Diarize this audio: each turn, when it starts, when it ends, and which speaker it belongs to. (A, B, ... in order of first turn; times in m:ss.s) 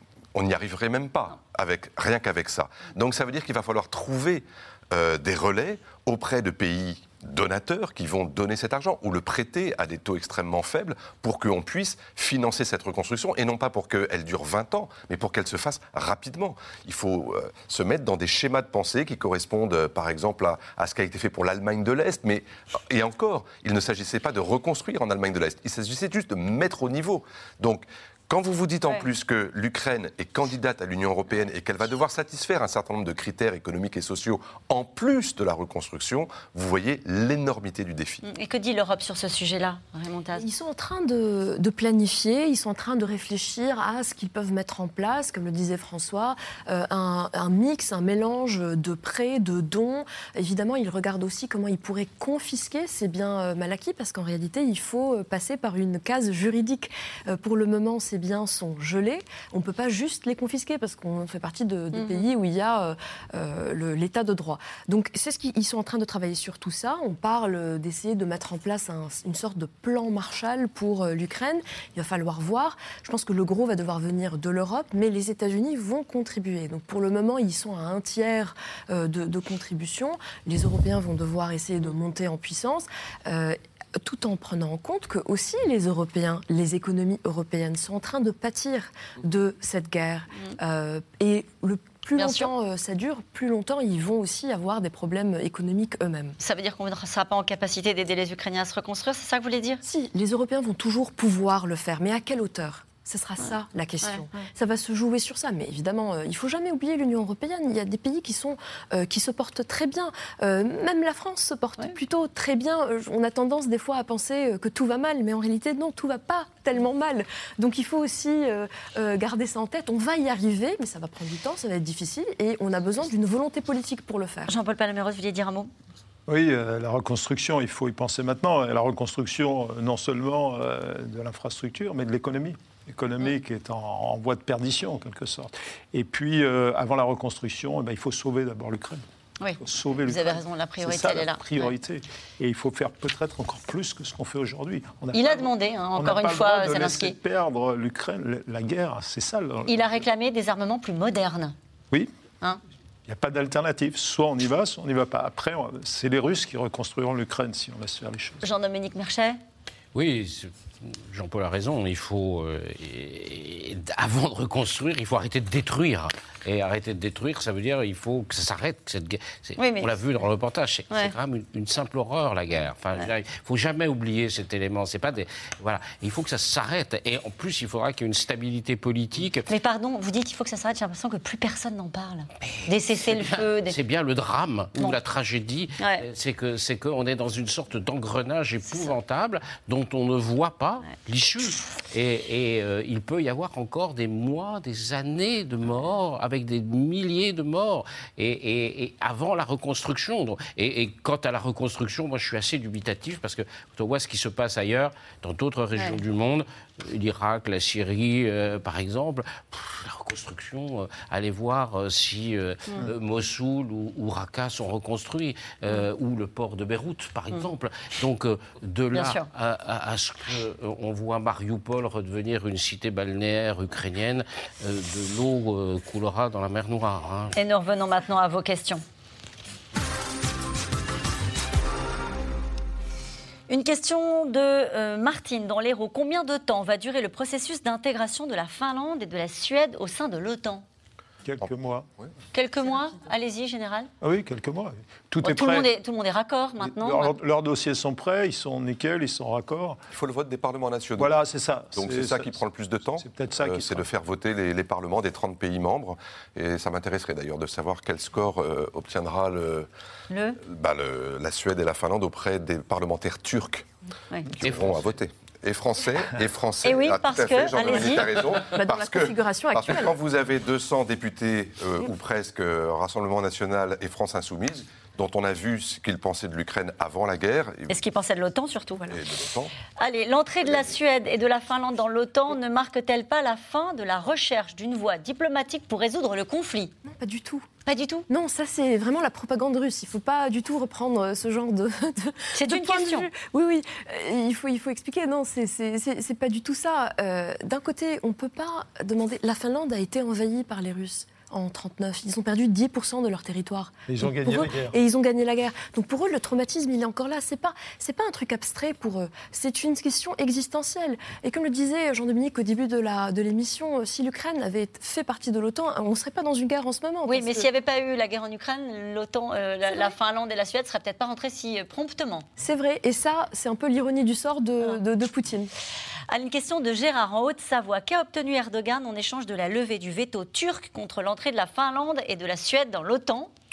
0:00.3-0:38.2 A
0:38.2-0:40.4 B
0:40.4-1:36.4 C
1:01.9-1:02.3 B
1:32.2-1:32.5 B
1:36.4-1:39.8 B
1:39.8-2:04.5 C
1:43.4-1:44.5 B
2:04.5-2:05.7 B
2:06.3-2:19.0 D
2:19.4-2:21.7 B
2:19.6-2:29.7 D
2:25.1-2:27.2 B
2:29.7-2:31.6 B
2:33.1-2:38.4 D
2:38.4-2:39.4 B
2:39.9-2:59.5 E
2:49.6-2:49.9 B
2:59.5-3:03.8 B
3:03.1-3:47.4 E
3:05.8-3:06.0 B
3:08.7-3:09.0 B
3:38.9-3:39.3 B
3:47.4-3:48.8 B
3:53.5-4:00.7 B
4:01.2-4:01.9 D
4:01.4-4:02.1 A
4:02.3-4:03.9 B
4:04.0-4:05.7 D
4:05.2-4:07.2 B
4:06.6-4:09.8 D
4:09.9-4:11.2 A
4:11.0-4:12.4 D
4:11.7-4:19.7 A
4:13.0-4:13.9 D
4:20.1-4:20.4 B
4:20.4-4:23.7 A
4:24.4-4:37.7 A
4:24.4-4:24.8 E
4:26.6-4:28.1 B
4:28.5-4:30.0 C
4:37.7-4:38.9 B
4:38.9-4:39.5 A
4:39.8-4:46.7 B
4:40.4-4:40.8 A
4:46.8-4:47.5 C
4:47.7-4:48.1 B
4:48.1-5:17.5 C
4:52.3-4:53.1 B
5:03.9-5:04.8 D
5:17.1-5:22.3 B
5:22.4-5:25.5 C
5:26.1-5:33.3 B